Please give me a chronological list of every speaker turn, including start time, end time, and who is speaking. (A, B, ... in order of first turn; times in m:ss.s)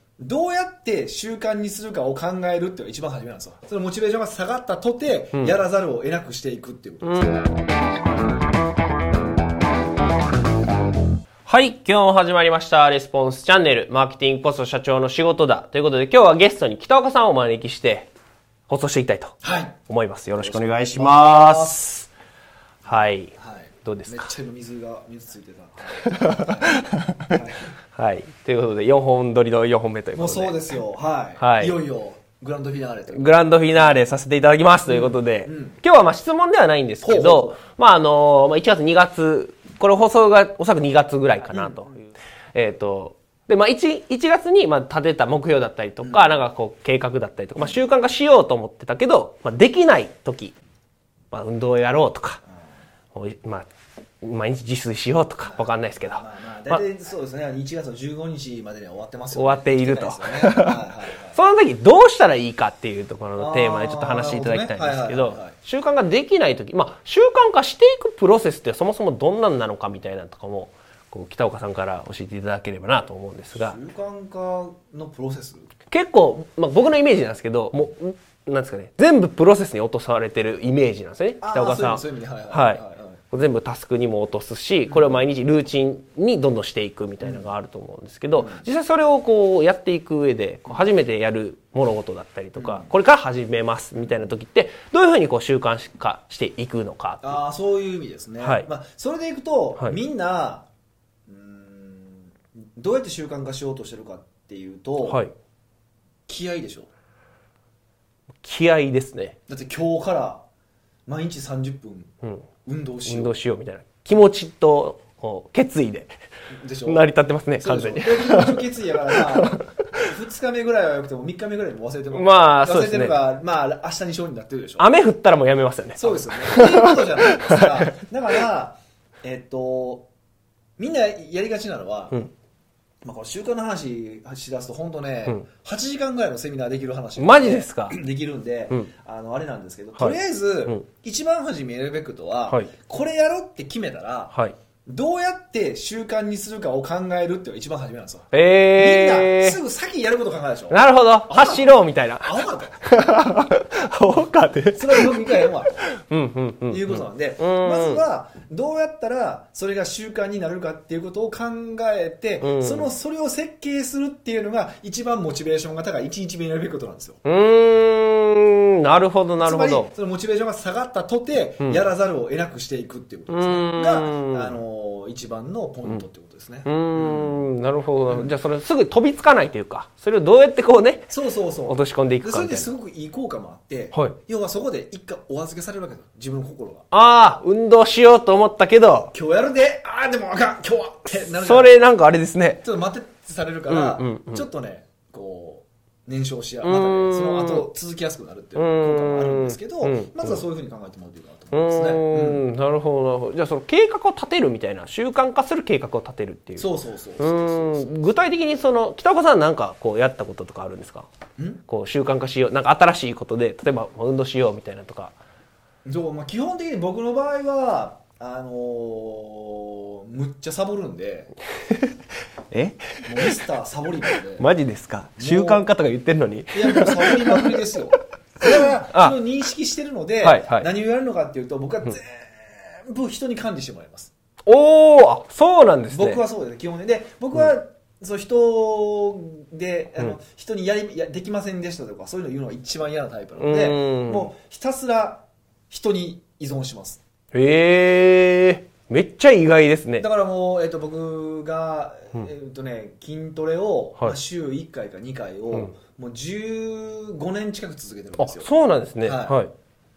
0:00.2-0:07.6 A
0:07.0-0:07.3 B
0:11.5-0:18.1 B
0:18.7-0:19.4 B
0:19.4-0:19.8 A
0:19.9-0:22.1 B
0:20.4-0:21.9 A
0:22.8-0:24.3 B
0:23.4-0:27.7 A
0:26.1-0:27.4 B
0:27.9-0:30.7 B
0:30.2-0:33.9 A
0:31.4-0:31.8 B
0:33.1-0:50.6 B
0:34.9-0:35.8 A
0:37.0-0:37.6 A
0:41.5-0:42.0 A
0:46.0-0:46.4 A
0:51.3-0:52.4 B
0:53.2-0:53.7 B
0:54.2-0:56.8 B
0:55.5-1:01.4 A
0:59.3-1:13.8 B
1:03.4-1:05.5 A
1:13.5-1:15.7 A
1:15.9-1:37.4 B
1:21.4-1:23.2 A
1:24.9-1:25.2 A
1:27.2-1:27.5 A
1:28.4-1:28.7 A
1:32.6-1:32.9 A
1:37.2-1:40.7 A
1:38.4-1:38.7 B
1:41.3-1:45.2 A
1:45.0-1:45.3 B
1:46.3-1:46.9 A
1:48.4-1:49.4 B
1:49.5-1:50.4 A
1:51.1-1:52.1 A
1:52.7-1:53.3 A
1:53.1-1:56.1 B
1:56.5-2:04.9 A
1:56.9-1:58.6 B
1:59.1-1:59.6 B
2:02.1-2:03.2 B
2:04.8-2:07.7 B
2:06.0-2:10.1 A
2:10.8-2:12.2 A
2:13.0-2:24.4 A
2:17.2-2:18.0 B
2:20.0-2:20.8 B
2:24.9-2:32.8 A
2:28.3-2:29.6 B
2:30.7-2:38.0 B
2:34.8-2:35.9 A
2:36.7-2:47.2 A
2:42.4-2:42.9 B
2:47.2-2:49.9 B
2:49.4-2:57.5 A
2:53.3-2:54.6 B
2:56.6-3:01.1 B
3:01.1-3:06.9 A
3:01.7-3:02.7 B
3:06.9-3:09.1 B
3:09.1-3:11.8 A
3:11.1-3:12.6 B
3:12.6-3:22.4 A
3:13.7-3:14.5 B
3:16.6-3:17.7 B
3:18.6-3:20.4 B
3:21.5-3:31.1 B
3:26.6-3:28.1 A
3:31.7-3:35.2 B
3:35.8-3:41.3 A
3:41.7-3:41.9 B
3:42.5-3:43.4 B
3:43.0-3:44.5 A
3:44.4-3:47.5 B
3:45.2-3:45.6 A
3:46.5-3:54.1 A
3:48.5-3:49.2 B
3:50.2-3:50.7 B
3:54.5-3:56.2 B
3:55.9-4:07.0 A
4:03.4-4:04.3 B
4:07.3-4:10.0 B
4:10.0-4:18.5 A
4:18.2-4:19.5 B
4:19.0-4:19.4 A